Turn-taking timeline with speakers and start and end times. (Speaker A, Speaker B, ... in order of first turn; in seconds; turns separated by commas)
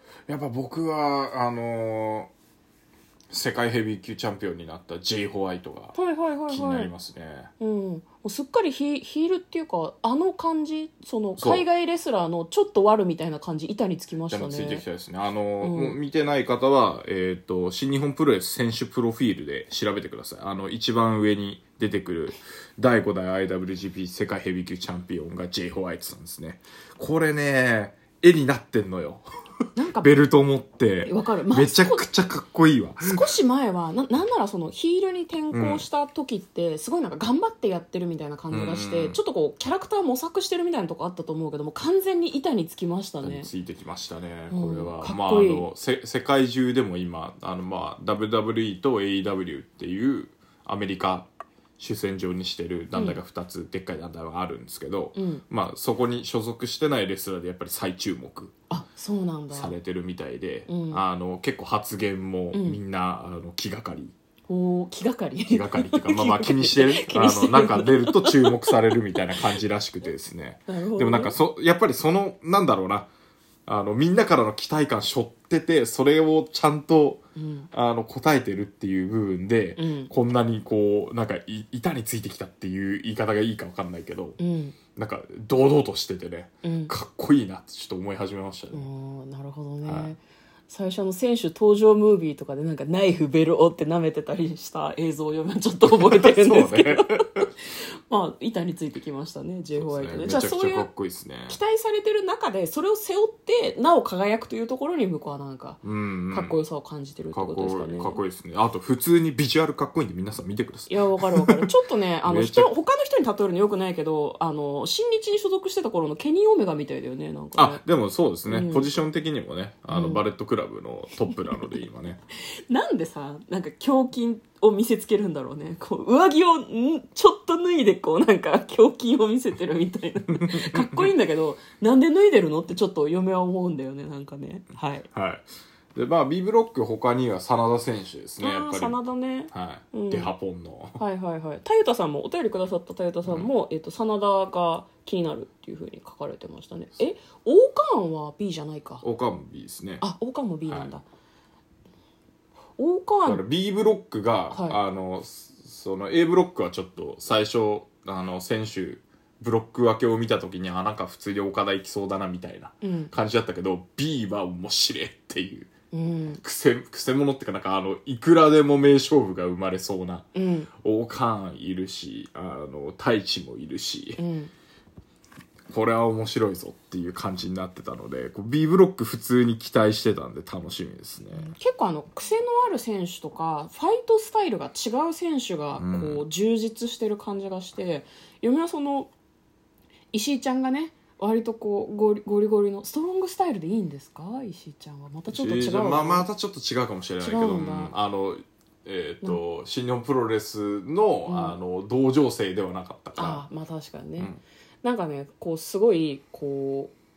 Speaker A: 0.3-2.3, Speaker A: 3.3-6.0, Speaker B: 5.9-6.9, Speaker A: 6.5-7.5, Speaker B: 7.6-14.8, Speaker A: 11.4-11.6, Speaker A: 14.3-29.2, Speaker B: 15.6-16.0, Speaker B: 29.8-30.2, Speaker A: 30.0-33.2, Speaker B: 31.0-32.0, Speaker B: 33.0-43.5, Speaker A: 35.5-35.9, Speaker A: 38.5-39.2, Speaker A: 43.2-58.5, Speaker B: 44.5-45.7, Speaker B: 52.9-53.2, Speaker B: 55.1-55.4, Speaker B: 58.7-59.7, Speaker A: 59.5-64.1, Speaker B: 60.7-61.0, Speaker B: 62.5-62.8, Speaker B: 64.5-68.7, Speaker A: 65.5-73.1, Speaker B: 70.7-71.3, Speaker A: 73.7-84.4, Speaker B: 77.3-77.7, Speaker B: 79.8-80.1, Speaker B: 84.4-84.8, Speaker A: 85.0-88.9, Speaker B: 86.6-86.9, Speaker B: 88.7-100.9, Speaker A: 89.8-90.1, Speaker A: 95.9-97.5, Speaker A: 99.8-101.6, Speaker B: 101.5-108.2, Speaker A: 105.8-106.6, Speaker A: 107.3-111.7, Speaker B: 110.9-117.8, Speaker A: 112.2-112.7, Speaker A: 117.5-122.2, Speaker B: 118.5-118.9, Speaker B: 119.9-120.2, Speaker B: 122.7-135.1, Speaker A: 130.6-131.1, Speaker A: 135.1-139.0, Speaker B: 138.4-140.3, Speaker A: 139.5-141.0, Speaker B: 141.0-149.0, Speaker A: 143.2-143.5, Speaker A: 149.0-150.0, Speaker B: 150.0-151.0, Speaker B: 152.8-153.4, Speaker A: 153.2-165.7, Speaker B: 154.5-154.8, Speaker B: 162.8-163.1, Speaker B: 165.9-166.4, Speaker A: 166.3-170.3, Speaker B: 170.3-170.7, Speaker A: 170.8-174.2, Speaker B: 174.2-174.5, Speaker A: 175.7-181.5, Speaker B: 181.3-189.1, Speaker A: 185.8-186.2, Speaker B: 190.1-196.3, Speaker A: 195.3-203.4, Speaker B: 197.2-197.9, Speaker B: 201.3-201.6, Speaker B: 203.2-204.3, Speaker B: 204.8-206.9